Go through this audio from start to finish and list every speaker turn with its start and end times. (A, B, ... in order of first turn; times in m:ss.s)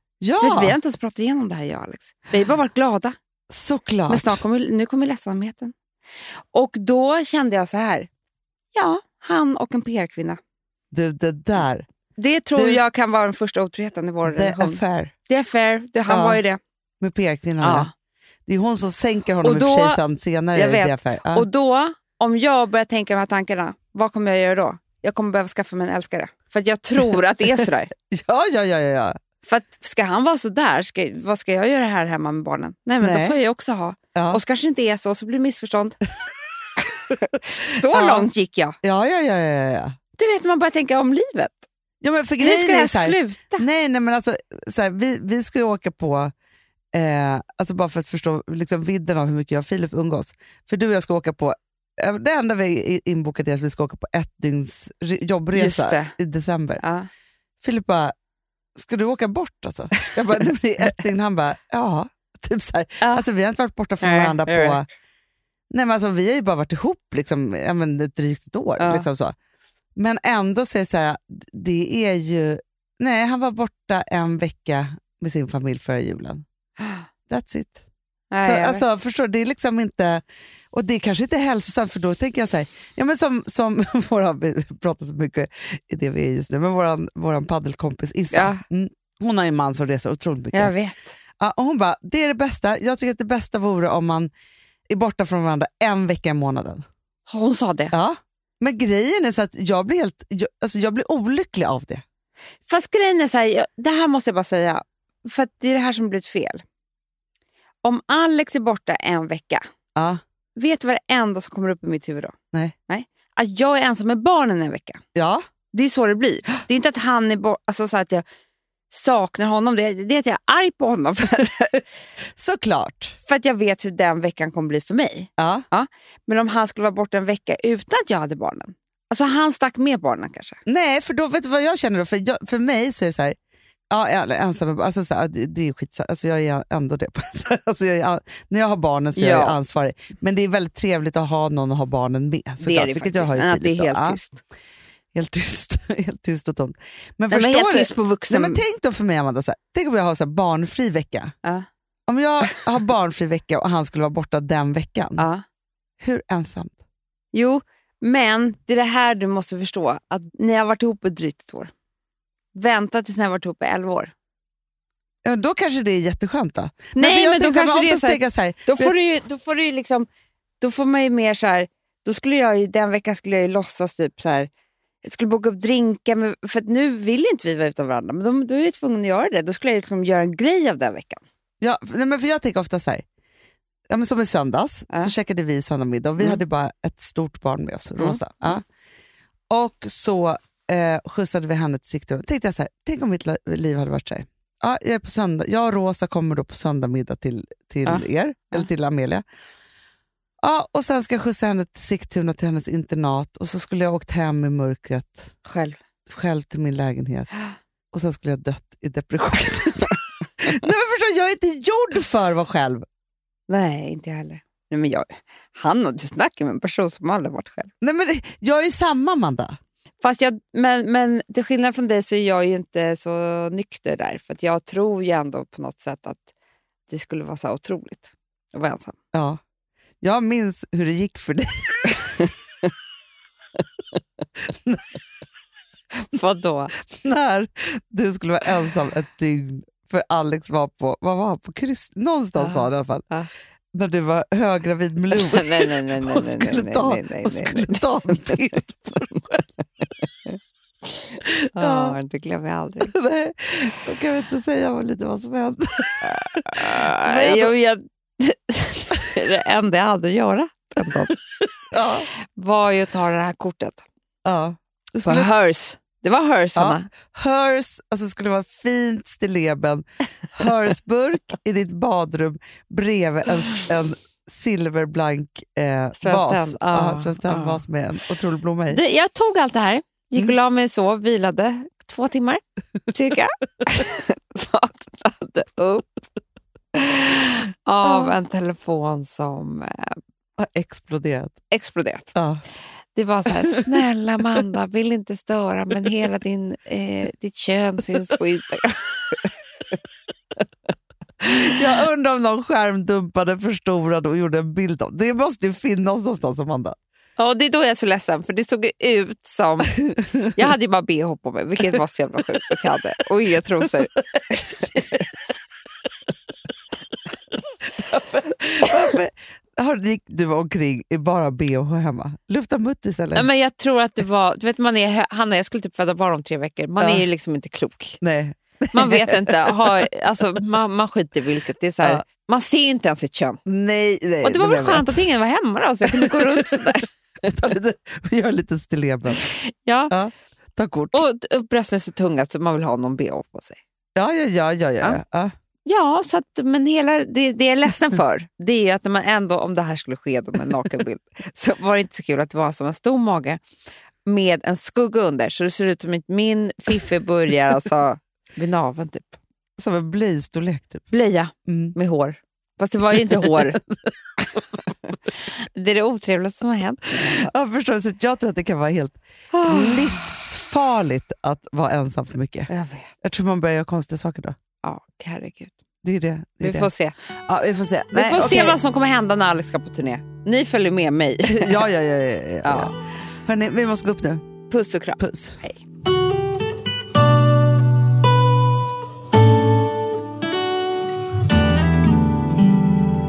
0:00.2-0:00.8 A
0:00.4-0:03.2 B
0:03.5-0:04.4 A
0:04.1-0:05.7 B
0:06.5-0:08.1 B
0:08.7-0:10.4 B
0:10.9-0:11.8 A
0:12.2-0:16.6 B
0:12.6-0:12.8 A
0:14.2-0:15.1 A
0:16.1-0:16.4 A
0:17.0-0:17.9 A
0:17.6-0:17.9 B
0:18.5-0:21.5 A
0:19.4-0:20.0 B
0:20.5-0:27.9 B
0:28.1-0:29.2 A
0:29.4-0:36.0 B
0:33.0-0:33.4 A
0:34.2-0:34.4 A
0:36.8-0:38.8 B
0:37.9-0:38.3 A
0:38.8-0:40.0 A
0:40.2-0:41.6 B
0:42.0-0:46.3 A
0:42.4-0:43.6 B
0:46.9-0:56.8 A
0:55.5-0:56.2 B
0:56.8-0:57.1 B
0:57.6-0:58.1 A
0:58.8-1:04.9 A
1:04.0-1:04.9 B
1:05.7-1:09.3 A
1:08.8-1:09.1 B
1:10.0-1:16.4 A
1:17.3-1:17.8 A
1:18.3-1:18.8 B
1:18.4-1:30.7 A
1:28.3-1:28.6 B
1:30.5-1:31.2 B
1:31.4-1:34.3 A
1:34.9-1:36.8 A
1:37.3-1:37.9 B
1:37.9-1:42.0 A
1:42.7-1:46.6 B
1:47.8-1:49.6 B
1:50.0-1:50.2 A
1:50.6-1:52.3 B
1:52.9-1:55.0 B
1:55.2-1:55.4 A
1:55.7-1:58.2 B
1:58.9-2:01.8 B
2:02.4-2:03.2 A
2:03.3-2:10.6 B
2:05.4-2:05.7 A
2:10.7-2:13.4 A
2:13.9-2:24.2 A
2:19.2-2:19.6 B
2:22.6-2:24.4 B
2:25.1-2:31.3 A
2:27.3-2:28.6 B
2:32.1-2:35.2 A
2:35.2-2:35.4 B
2:36.0-2:36.8 A
2:37.3-2:41.7 B
2:42.6-2:44.1 B
2:45.2-2:48.9 A
2:47.0-2:50.1 B
2:50.6-2:54.5 B
2:55.0-3:01.2 B
3:01.6-3:03.0 A
3:03.9-3:08.6 A
3:08.0-3:08.6 B
3:09.5-3:19.2 A
3:17.9-3:18.7 B
3:20.4-3:25.4 A
3:25.4-3:25.8 B
3:26.1-3:27.3 A
3:27.9-3:32.8 A
3:33.5-3:37.7 B
3:37.8-3:39.6 A
3:40.0-3:46.3 B
3:46.9-3:49.0 B
3:49.1-3:49.4 A
3:50.0-3:52.2 A
3:54.5-3:55.0 A
3:56.0-3:56.7 B
3:56.9-4:03.1 A
4:02.4-4:03.3 B
4:03.7-4:09.4 A
4:05.2-4:08.6 B
4:10.3-4:12.9 B
4:11.5-4:12.0 A
4:12.9-4:17.5 A
4:16.1-4:21.1 B
4:21.7-4:22.1 A
4:22.4-4:23.8 B
4:24.2-4:25.3 A
4:25.0-4:26.9 B
4:26.6-4:38.8 A
4:36.0-4:37.6 B
4:38.7-4:42.4 B
4:42.9-4:46.0 B
4:46.7-4:50.0 B
4:47.8-4:48.2 A
4:50.4-4:51.4 A
4:51.5-4:52.1 B
4:52.2-4:52.4 A
4:53.0-4:59.8 B
4:53.4-4:53.7 A
5:01.2-5:06.8 A
5:07.2-5:15.0 B
5:17.7-5:23.3 A
5:23.2-5:28.0 B
5:28.0-5:29.3 A
5:28.7-5:33.4 B
5:33.5-5:35.0 A
5:34.2-5:36.9 B
5:37.2-5:39.3 A
5:39.2-5:39.9 B
5:39.9-5:41.0 A
5:40.9-5:43.6 B
5:44.0-5:45.3 A
5:45.7-5:53.4 B
5:54.1-5:59.2 B
5:59.6-6:00.9 A
6:00.9-6:03.6 B
6:01.5-6:01.8 A
6:05.3-6:07.3 B
6:07.2-6:12.5 A
6:09.3-6:10.0 B
6:12.5-6:12.9 B
6:13.0-6:14.4 A
6:14.6-6:15.6 B
6:15.8-6:16.7 A
6:16.4-6:17.0 B
6:17.3-6:18.6 A
6:17.9-6:21.7 B
6:21.3-6:22.7 A
6:22.4-6:22.7 B
6:23.3-6:24.3 A
6:24.5-6:25.6 B
6:25.0-6:25.4 A